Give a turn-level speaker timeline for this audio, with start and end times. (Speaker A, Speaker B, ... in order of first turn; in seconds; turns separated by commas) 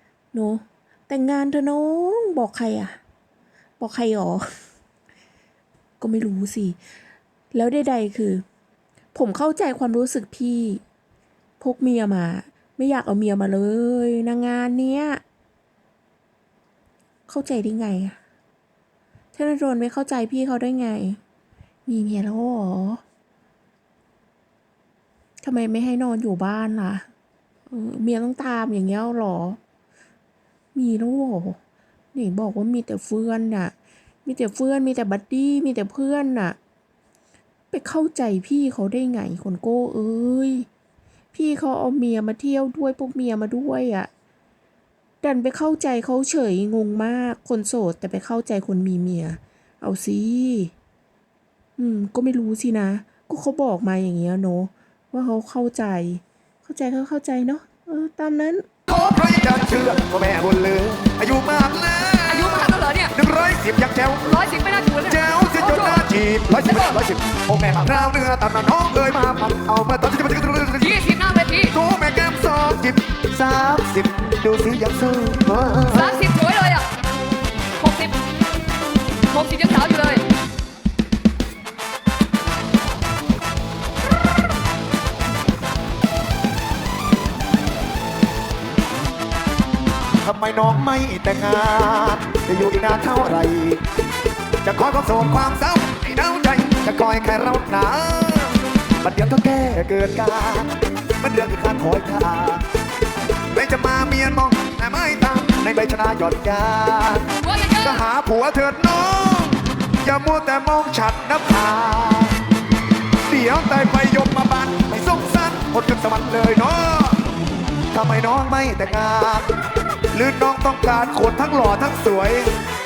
Speaker A: 0.3-3.0, Speaker A: 3.8-4.5, Speaker A: 6.0-6.8, Speaker A: 7.5-8.4, Speaker A: 9.1-10.8, Speaker A: 11.6-15.2, Speaker A: 17.3-18.2, Speaker A: 19.3-21.2, Speaker A: 21.9-23.0, Speaker A: 25.4-27.1, Speaker A: 27.7-29.6, Speaker A: 30.8-31.6, Speaker A: 32.1-33.7, Speaker A: 34.2-36.6, Speaker A: 37.7-40.7, Speaker A: 41.3-44.1, Speaker A: 45.2-50.7, Speaker A: 51.8-58.7, Speaker B: 58.9-64.4, Speaker C: 62.3-63.1, Speaker C: 64.3-66.0, Speaker B: 65.1-71.0, Speaker C: 66.6-67.0, Speaker C: 70.8-71.7, Speaker B: 71.7-76.3, Speaker C: 75.9-76.9, Speaker C: 77.8-78.2, Speaker C: 79.3-80.3, Speaker B: 90.2-93.8, Speaker B: 94.6-102.7, Speaker B: 103.5-112.4, Speaker C: 107.3-108.0, Speaker B: 113.3-117.2, Speaker B: 117.9-119.5, Speaker B: 120.1-122.5